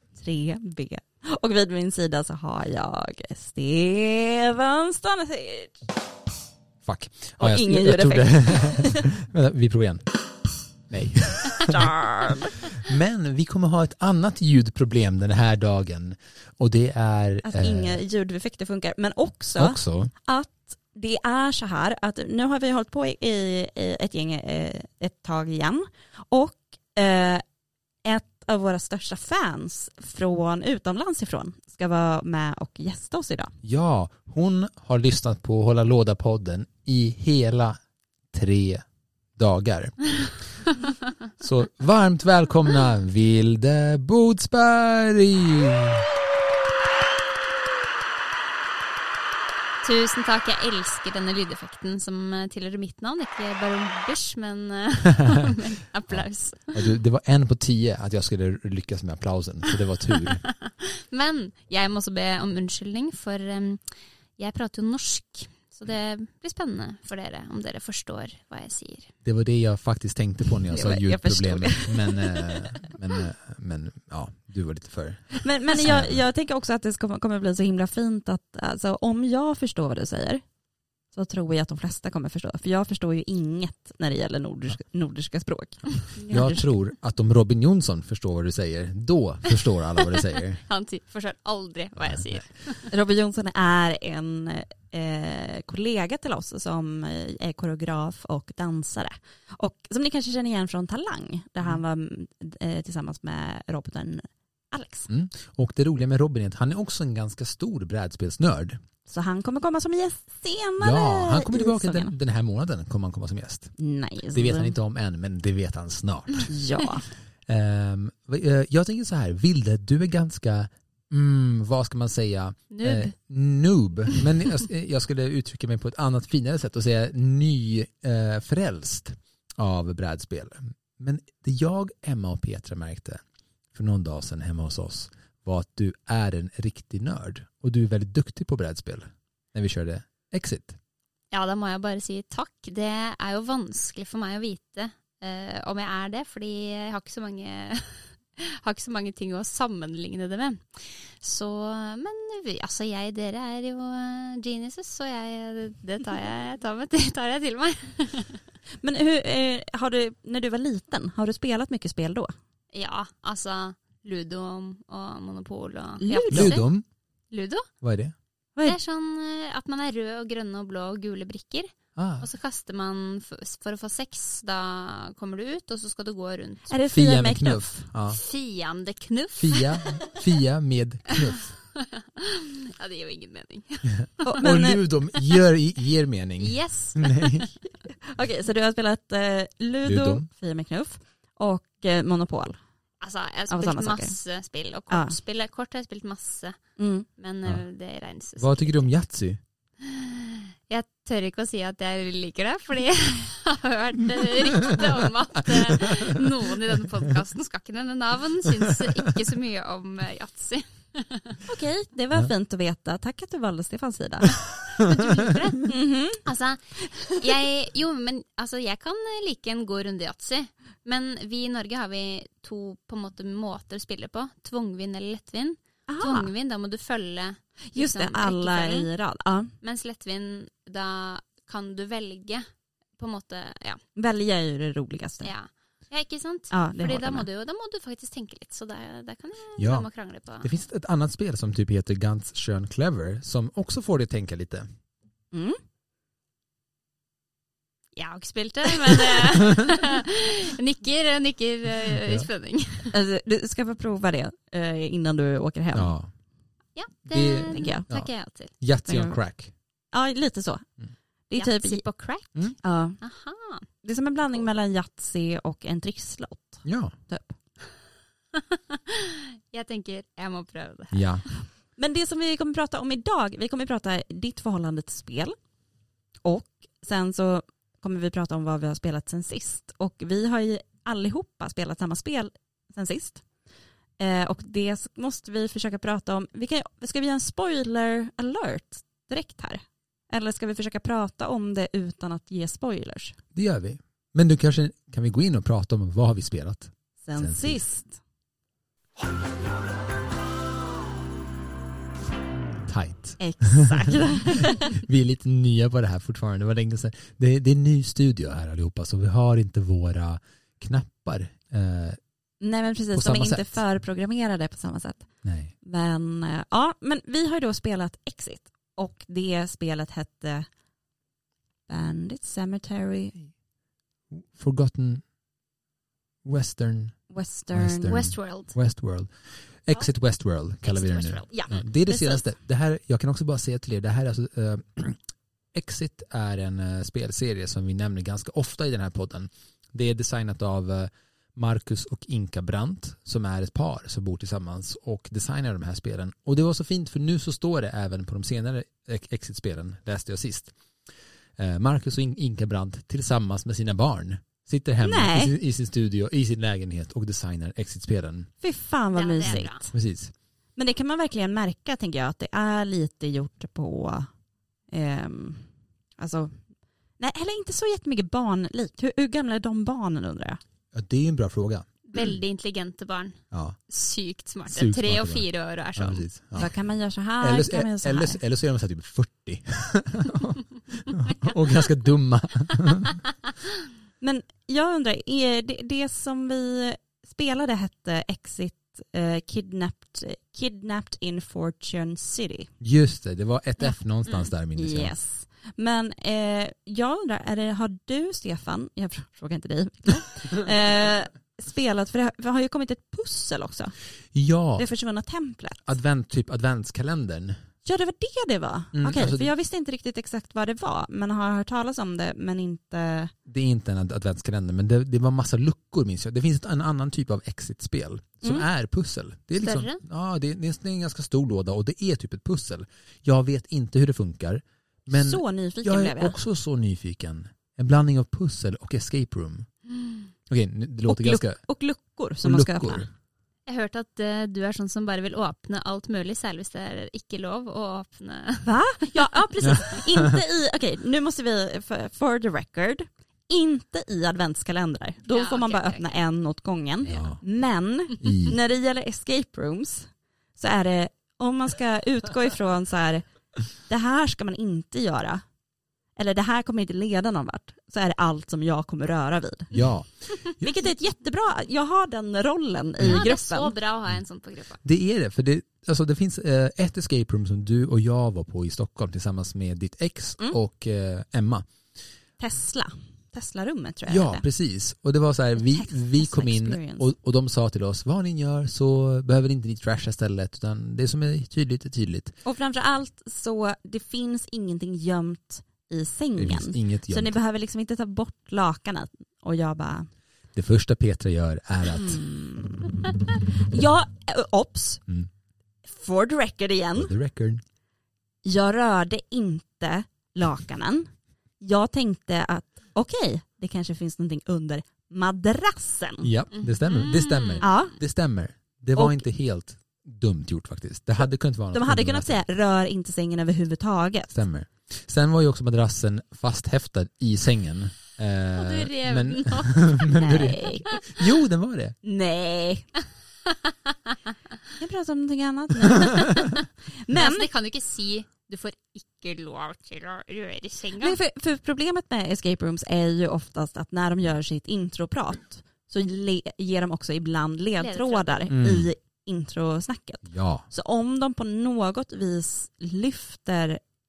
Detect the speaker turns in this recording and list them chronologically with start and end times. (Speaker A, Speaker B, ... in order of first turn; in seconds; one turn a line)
Speaker A: 0.1-5.8
Speaker B: 6.8-10.1
Speaker A: 7.4-9.1
Speaker B: 10.9-11.9
Speaker A: 11.7-12.6
Speaker B: 12.7-18.0
Speaker A: 17.4-27.4
Speaker B: 19.6-20.1
Speaker A: 28.0-33.5
Speaker B: 33.6-37.8
Speaker B: 38.3-38.9
Speaker B: 39.4-40.1
Speaker B: 41.4-46.0
Speaker C: 49.8-56.9
Speaker B: 56.1-60.4
Speaker C: 60.3-63.8
Speaker C: 64.4-69.1
Speaker B: 69.2-76.2
Speaker A: 70.7-72.7
Speaker A: 75.3-80.4
Speaker A: 81.1-86.7
Speaker B: 86.3-90.6
Speaker C: 90.0-92.9
Speaker B: 92.0-92.4
Speaker A: 92.9-105.1
Speaker B: 105.1-108.8
Speaker A: 109.1-112.1
Speaker B: 110.8-113.8
Speaker A: 113.8-114.8
Speaker B: 114.3-116.5
Speaker A: 116.5-117.1
Speaker B: 117.5-133.2
Speaker C: 122.8-123.1
Speaker B: 133.7-140.8
Speaker C: 141.3-158.4
Speaker A: 158.8-162.3
Speaker C: 162.7-166.7
Speaker A: 166.0-166.6
Speaker B: 166.3-166.8
Speaker C: 167.3-167.7
Speaker B: 167.8-168.1
Speaker C: 168.6-176.7
Speaker B: 171.9-172.3
Speaker A: 176.7-177.9
Speaker B: 176.9-178.2
Speaker C: 178.1-180.2
Speaker B: 179.3-181.5
Speaker C: 181.8-184.4
Speaker B: 184.0-187.5
Speaker A: 184.2-184.8
Speaker C: 186.4-187.5
Speaker A: 188.0-192.6
Speaker B: 189.8-190.3
Speaker C: 193.0-196.6
Speaker A: 193.5-194.1
Speaker A: 194.9-195.2
Speaker A: 196.8-197.1
Speaker C: 197.2-198.9
Speaker B: 198.4-199.4
Speaker C: 199.8-211.4
Speaker B: 205.4-206.2
Speaker B: 208.7-209.2
Speaker A: 211.4-214.4
Speaker C: 214.7-228.9
Speaker A: 215.7-216.2
Speaker A: 225.9-226.3
Speaker A: 227.7-229.5
Speaker C: 229.6-232.5
Speaker C: 233.0-233.8
Speaker A: 234.0-235.3
Speaker C: 235.2-240.5
Speaker A: 236.5-237.3
Speaker B: 239.6-239.9
Speaker B: 240.4-244.7
Speaker A: 245.3-245.6
Speaker C: 248.0-253.0
Speaker B: 249.3-249.7
Speaker B: 251.9-252.3
Speaker A: 252.9-255.9
Speaker B: 255.7-256.1
Speaker C: 256.8-258.5
Speaker B: 257.1-258.1
Speaker A: 257.5-257.9
Speaker B: 258.6-259.5
Speaker A: 258.9-259.2
Speaker A: 259.9-260.6
Speaker A: 261.3-261.8
Speaker C: 261.4-262.4
Speaker A: 262.6-263.0
Speaker C: 263.0-263.7
Speaker A: 263.8-267.4
Speaker B: 266.6-266.9
Speaker C: 268.3-271.4
Speaker B: 270.9-271.2
Speaker A: 271.8-275.4
Speaker A: 276.2-283.2
Speaker A: 284.0-293.2
Speaker B: 293.4-297.6
Speaker A: 297.0-298.0
Speaker B: 302.6-304.0
Speaker A: 303.2-304.8
Speaker B: 304.8-312.0
Speaker A: 312.4-315.1
Speaker B: 312.9-313.6
Speaker B: 315.2-315.5
Speaker A: 315.6-320.5
Speaker A: 321.7-323.2
Speaker B: 324.1-325.0
Speaker B: 326.2-327.0
Speaker A: 327.1-327.9
Speaker B: 327.5-329.1
Speaker C: 327.9-328.6
Speaker B: 329.6-335.0
Speaker C: 330.6-331.5
Speaker A: 331.3-332.2
Speaker B: 335.5-350.6
Speaker B: 351.4-358.3
Speaker A: 354.8-355.4
Speaker A: 358.4-359.7
Speaker C: 358.9-359.7
Speaker B: 359.3-360.1
Speaker A: 360.6-364.1
Speaker A: 364.7-366.4
Speaker A: 367.0-370.4
Speaker B: 370.7-371.7
Speaker C: 371.9-376.1
Speaker B: 373.3-373.6
Speaker B: 374.5-376.6
Speaker A: 376.4-378.2
Speaker B: 377.2-383.0
Speaker A: 384.0-392.5
Speaker B: 392.6-395.0
Speaker A: 394.6-403.8
Speaker B: 404.1-404.7
Speaker A: 404.6-405.6
Speaker B: 405.6-407.4
Speaker A: 407.6-413.1
Speaker B: 408.7-409.3
Speaker B: 413.2-429.5
Speaker C: 419.4-419.8
Speaker A: 424.9-426.2
Speaker C: 429.7-430.1
Speaker B: 430.3-431.4
Speaker A: 430.9-432.9
Speaker B: 432.2-432.9
Speaker C: 433.5-439.8
Speaker A: 438.4-455.2
Speaker B: 439.5-440.1
Speaker C: 445.1-446.0
Speaker B: 446.8-447.2
Speaker B: 448.0-448.4
Speaker A: 456.0-459.6
Speaker B: 459.5-460.5
Speaker A: 460.3-463.5
Speaker B: 462.8-463.1
Speaker C: 462.8-464.6
Speaker B: 464.6-471.5
Speaker A: 472.2-474.2
Speaker B: 473.9-482.1
Speaker A: 475.4-476.9
Speaker A: 482.2-489.9
Speaker B: 486.2-487.1
Speaker B: 490.3-492.0
Speaker A: 491.7-494.8
Speaker A: 495.6-496.9
Speaker B: 496.8-497.4
Speaker A: 498.2-506.1
Speaker B: 506.0-512.2
Speaker C: 506.4-507.6
Speaker A: 507.4-507.8
Speaker A: 508.8-509.1
Speaker A: 511.5-514.1
Speaker B: 514.1-521.8
Speaker C: 518.4-521.0
Speaker A: 520.0-520.6
Speaker A: 521.8-522.7
Speaker A: 524.6-527.3
Speaker C: 526.9-531.0
Speaker A: 530.8-543.6
Speaker C: 537.6-538.3
Speaker B: 538.3-538.7
Speaker B: 540.1-540.5